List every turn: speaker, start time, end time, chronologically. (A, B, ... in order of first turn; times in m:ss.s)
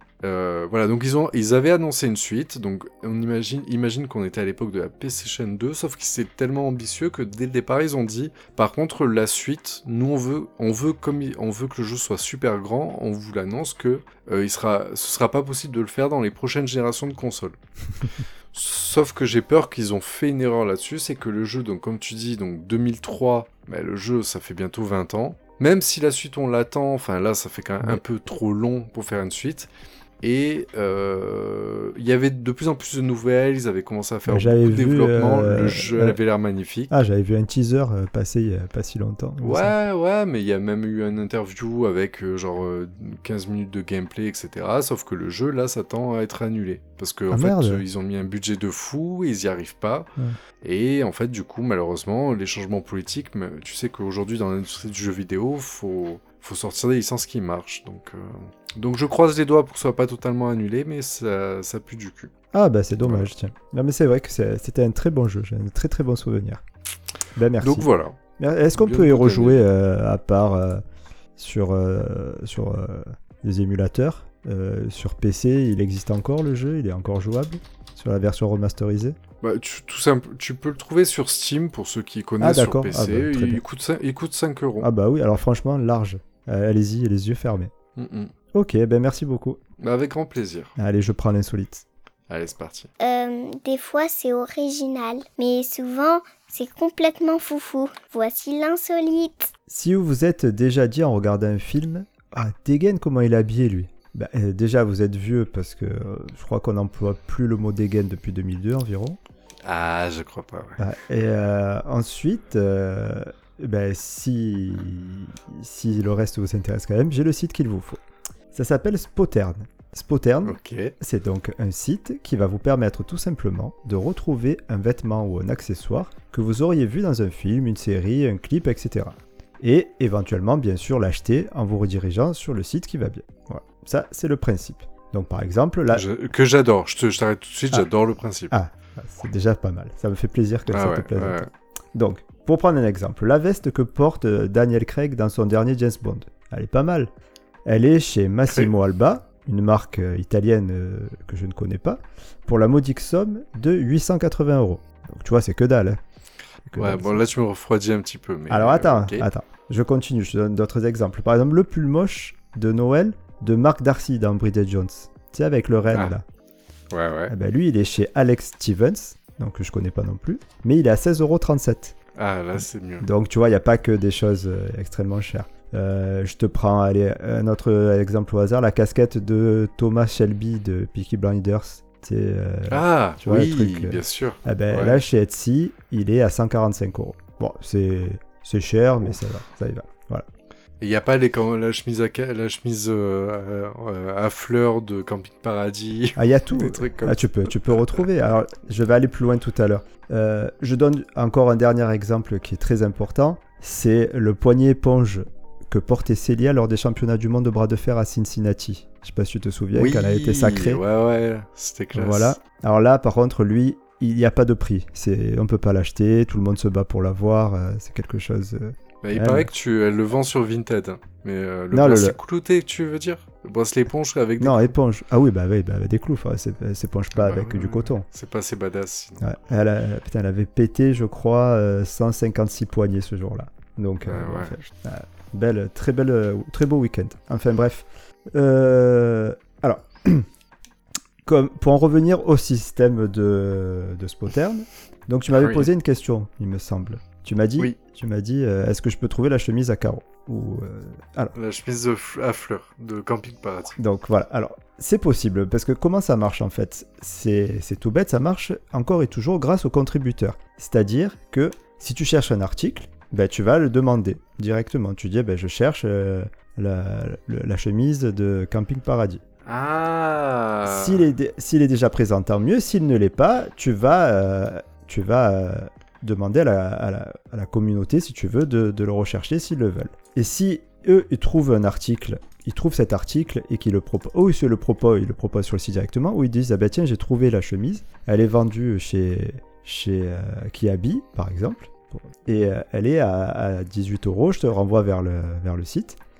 0:00.2-0:17.6 A
0:18.5-0:29.7 A
0:30.2-0:36.9 A
0:34.3-0:36.2 B
0:36.9-0:39.7 B
0:39.4-0:50.1 A
0:47.3-0:47.8 B
0:50.6-1:02.3 A
1:02.5-1:06.6 B
1:03.0-1:03.3 A
1:07.4-1:10.8 B
1:07.6-1:08.2 A
1:08.7-1:09.6 A
1:11.4-1:19.2 B
1:19.4-1:24.9 A
1:22.4-1:23.6 B
1:24.8-1:27.7 B
1:28.0-1:28.3 A
1:28.5-1:29.6 B
1:29.8-1:30.7 A
1:30.8-1:31.8 B
1:32.3-1:32.9 A
1:33.0-1:39.5 C
1:39.7-1:49.2 B
1:49.6-1:50.8 A
1:50.8-1:58.0 B
1:58.5-2:16.0 B
2:00.4-2:00.9 A
2:15.9-2:18.5 A
2:18.5-2:27.1 B
2:20.7-2:21.5 A
2:27.6-2:36.0 B
2:36.7-2:37.2 B
2:36.8-2:39.3 A
2:38.5-2:46.2 B
2:46.9-2:47.3 A
2:47.3-2:52.0 B
2:52.2-2:53.1 A
2:53.0-3:10.2 B
3:02.7-3:05.0 A
3:10.8-3:17.9 A
3:16.2-3:30.8 B
3:29.7-3:32.4 A
3:31.9-3:39.5 B
3:39.0-3:44.8 A
3:41.7-3:42.2 B
3:44.4-3:48.0 B
3:47.1-3:49.2 A
3:49.2-4:00.3 B
3:54.0-3:54.6 A
4:01.2-4:11.3 B
4:05.3-4:05.7 A
4:11.3-4:13.8 A
4:13.8-4:29.2 B
4:29.4-4:31.1 A
4:30.6-4:56.0 B